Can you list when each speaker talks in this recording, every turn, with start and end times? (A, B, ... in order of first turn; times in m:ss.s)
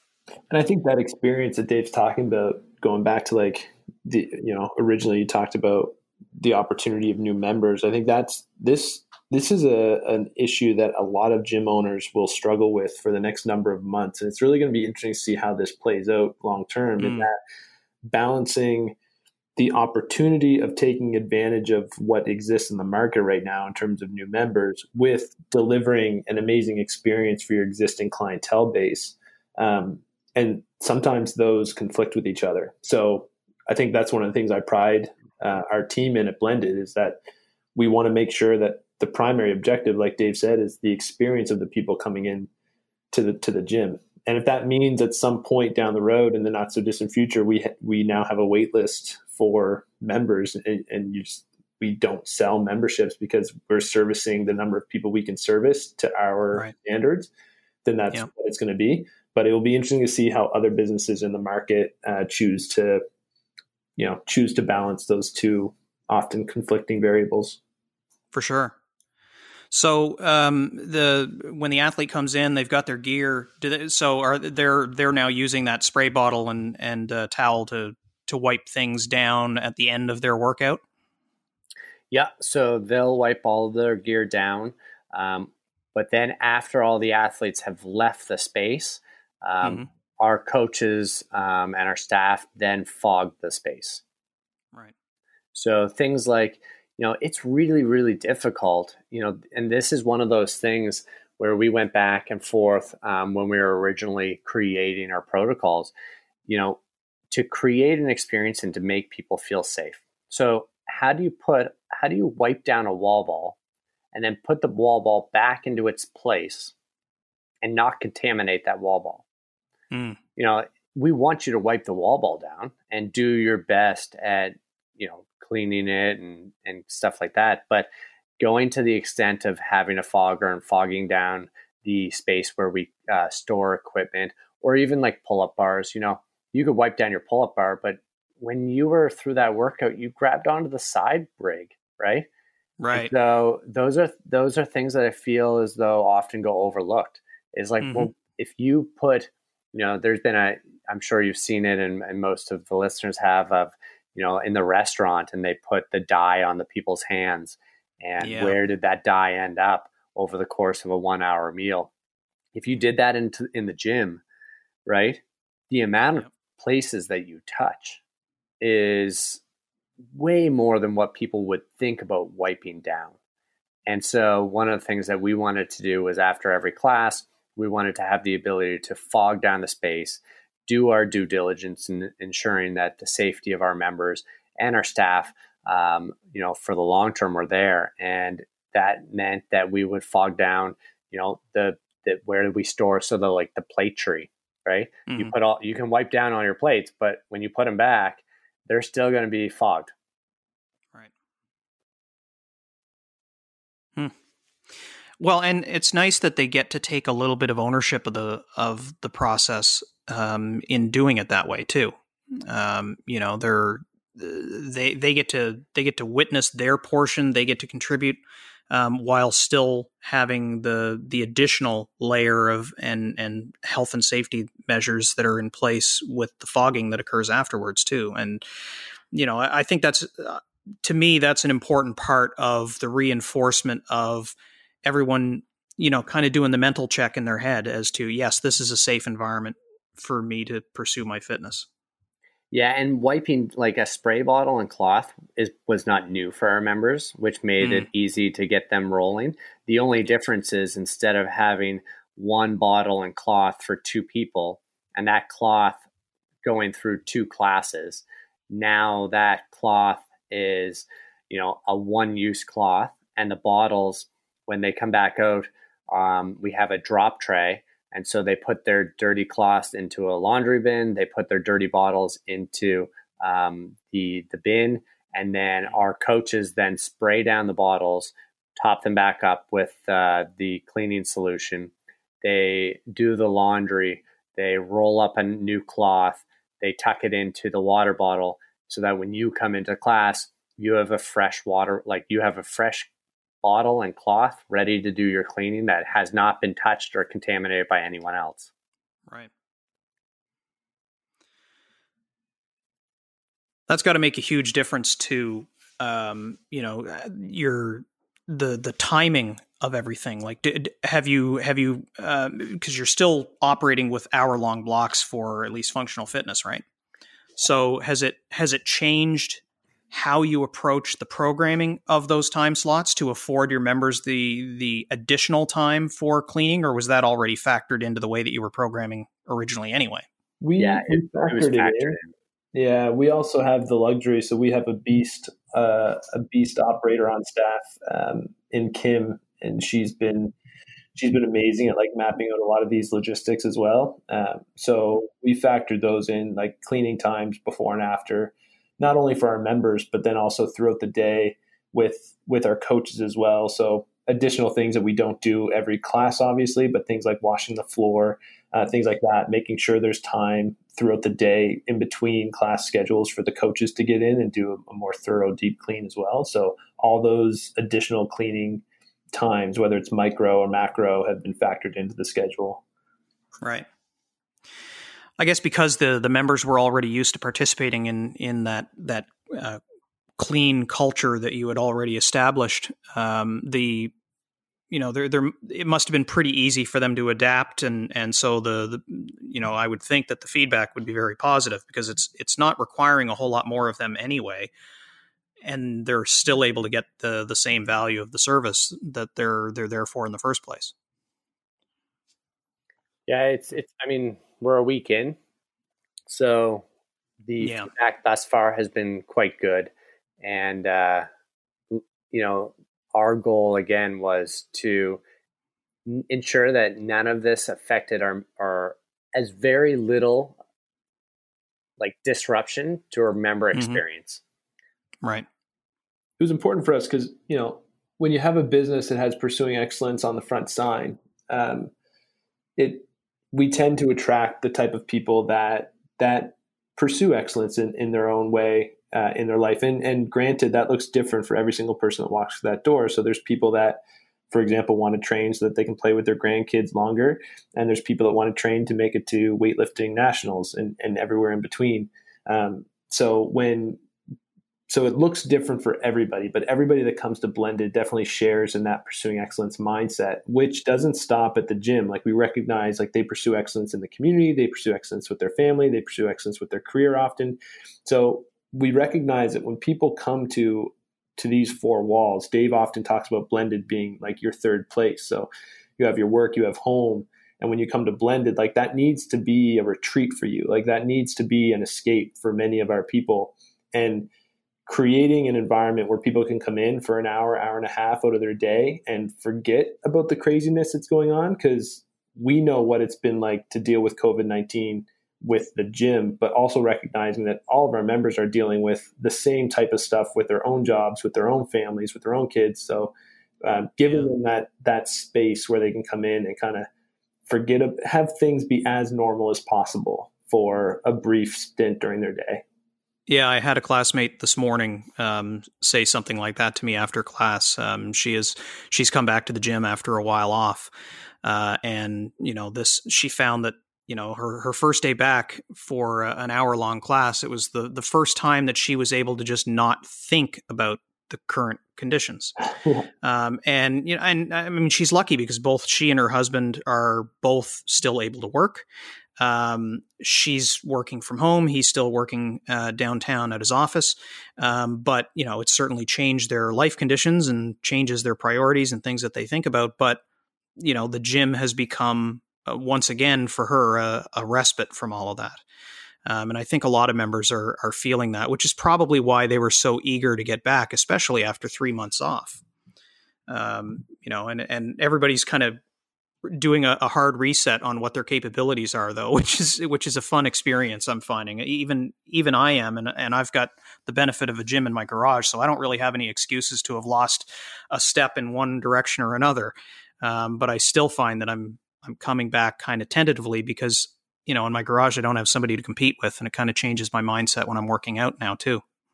0:00.5-0:17.4 A
0:17.0-0:17.3 B
0:18.0-0:19.0 A
0:19.6-0:37.2 A
0:37.8-0:42.5 A
0:43.1-0:57.3 A
0:57.8-1:03.0 A
1:04.0-1:07.6 A
1:08.3-1:08.8 B
1:09.7-1:20.8 B
1:22.1-1:34.0 C
1:29.6-1:29.9 B
1:35.5-1:45.9 C
1:46.5-1:46.8 C
1:47.3-1:53.6 C
1:54.1-1:56.7 C
1:57.6-1:59.2 C
1:59.9-2:00.2 B
2:00.4-2:07.9 C
2:08.4-2:22.3 C
2:22.8-2:23.1 B
2:22.9-2:41.9 C
2:27.8-2:28.1 B
2:38.2-2:38.6 B
2:42.6-2:44.2 C
2:44.9-2:48.0 C
2:48.6-2:49.4 C
2:50.1-2:53.2 C
2:53.9-3:19.9 C
3:15.1-3:15.3 B
3:25.2-3:48.4 B
3:49.1-4:01.7 B
4:02.5-4:15.8 C
4:07.6-4:07.9 B
4:16.4-4:52.9 C
4:53.4-4:58.5 C
5:03.7-5:16.6 B
5:17.4-5:30.1 B
5:30.4-5:32.0 A
5:30.6-5:32.1 C
5:32.5-5:40.3 A
5:41.0-6:12.6 A
6:13.4-6:13.7 B
6:15.2-6:19.6 B
6:20.2-6:23.9 B
6:24.7-6:34.5 B
6:35.4-6:40.7 B
6:43.1-6:45.2 C
6:46.1-6:46.6 C
6:47.2-6:51.1 C
6:47.4-6:47.7 B
6:51.7-6:55.0 C
6:55.9-7:00.4 C
7:01.8-7:04.2 C
7:03.5-7:03.8 B
7:06.2-7:11.7 A
7:12.6-7:33.8 A
7:34.7-8:04.1 A
8:04.7-8:26.7 A
8:27.3-8:32.4 A
8:33.1-8:40.7 B
8:41.2-8:52.3 B
8:53.0-8:58.6 B
8:59.2-9:10.0 B
9:10.6-9:15.4 B
9:16.1-9:22.4 B
9:23.3-9:25.6 B
9:26.2-9:48.6 B